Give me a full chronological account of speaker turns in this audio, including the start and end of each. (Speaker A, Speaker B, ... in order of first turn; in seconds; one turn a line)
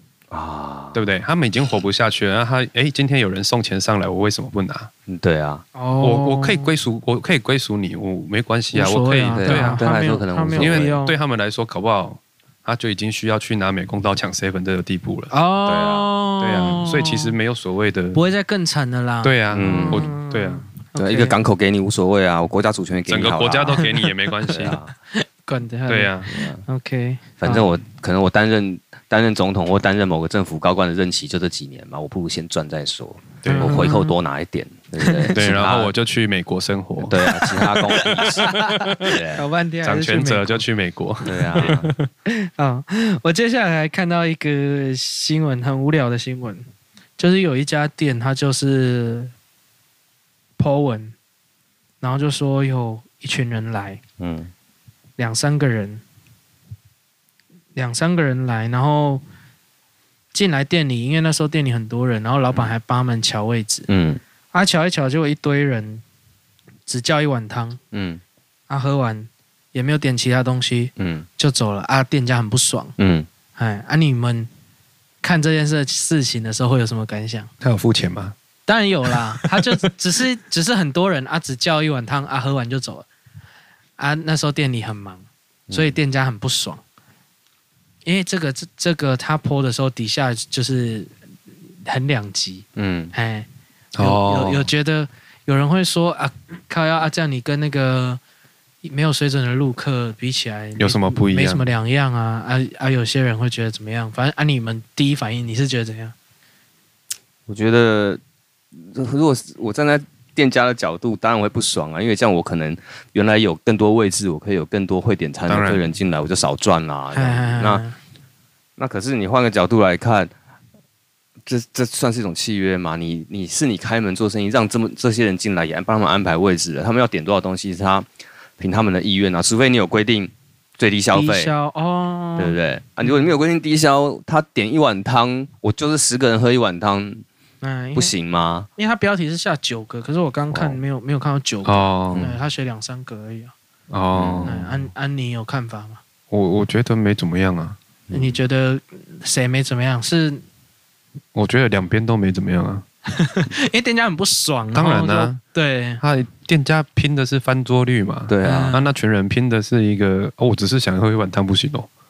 Speaker A: 0.3-1.0
Speaker B: 0.9-4.9
Speaker A: 5.1-5.7
Speaker C: 5.8-6.7
Speaker B: 6.0-9.8
Speaker C: 8.7-11.2
Speaker A: 9.4-10.9
Speaker B: 10.6-15.3
Speaker C: 15.3-17.4
Speaker A: 15.7-16.1
Speaker B: 16.4-18.2
Speaker C: 18.1-21.4
Speaker B: 19.2-20.7
Speaker A: 19.5-20.1
Speaker A: 21.0-23.9
Speaker B: 23.1-24.8
Speaker C: 23.8-27.7
Speaker A: 24.5-24.9
Speaker B: 25.9-26.3
Speaker A: 26.3-26.6
Speaker A: 27.4-35.9
Speaker B: 33.4-33.9
Speaker C: 33.5-34.1
Speaker C: 35.0-35.4
Speaker B: 35.3-37.2
Speaker A: 37.1-39.4
Speaker C: 37.2-40.6
Speaker B: 38.3-39.1
Speaker B: 39.8-42.1
Speaker A: 41.3-41.9
Speaker C: 42.3-46.7
Speaker C: 47.2-49.3
Speaker C: 50.6-51.1
Speaker C: 52.0-54.0
Speaker A: 54.2-54.5
Speaker C: 55.2-56.0
Speaker C: 57.8-59.2
Speaker C: 60.3-63.9
Speaker A: 63.9-64.2
Speaker C: 64.5-66.0
Speaker C: 66.9-67.8
Speaker A: 67.9-68.2
Speaker C: 68.7-72.9
Speaker A: 71.0-71.3
Speaker A: 73.0-73.3
Speaker C: 73.6-74.5
Speaker C: 75.2-77.5
Speaker B: 77.6-78.3
Speaker C: 78.7-83.1
Speaker B: 79.1-79.8
Speaker C: 84.0-86.8
Speaker A: 85.7-86.0
Speaker C: 88.0-91.1
Speaker C: 91.8-93.5
Speaker A: 92.8-93.1
Speaker B: 94.0-94.7
Speaker C: 94.0-98.2
Speaker C: 98.8-106.1
Speaker B: 100.8-101.7
Speaker A: 107.5-108.2
Speaker A: 108.8-117.8
Speaker B: 115.5-115.8
Speaker C: 117.1-118.0
Speaker A: 118.8-120.3
Speaker A: 121.5-128.1
Speaker A: 128.6-131.5
Speaker C: 131.1-133.3
Speaker A: 132.4-137.2
Speaker C: 137.6-138.1
Speaker A: 137.9-138.7
Speaker C: 138.8-143.5
Speaker A: 140.5-140.8
Speaker B: 141.7-142.3
Speaker B: 143.9-144.9
Speaker A: 144.2-144.5
Speaker C: 144.4-146.0
Speaker B: 146.3-147.8
Speaker A: 148.1-148.4
Speaker C: 148.1-150.4
Speaker B: 151.3-152.8
Speaker C: 153.1-156.0
Speaker B: 154.7-155.4
Speaker B: 156.0-161.9
Speaker A: 158.3-158.8
Speaker C: 158.4-158.9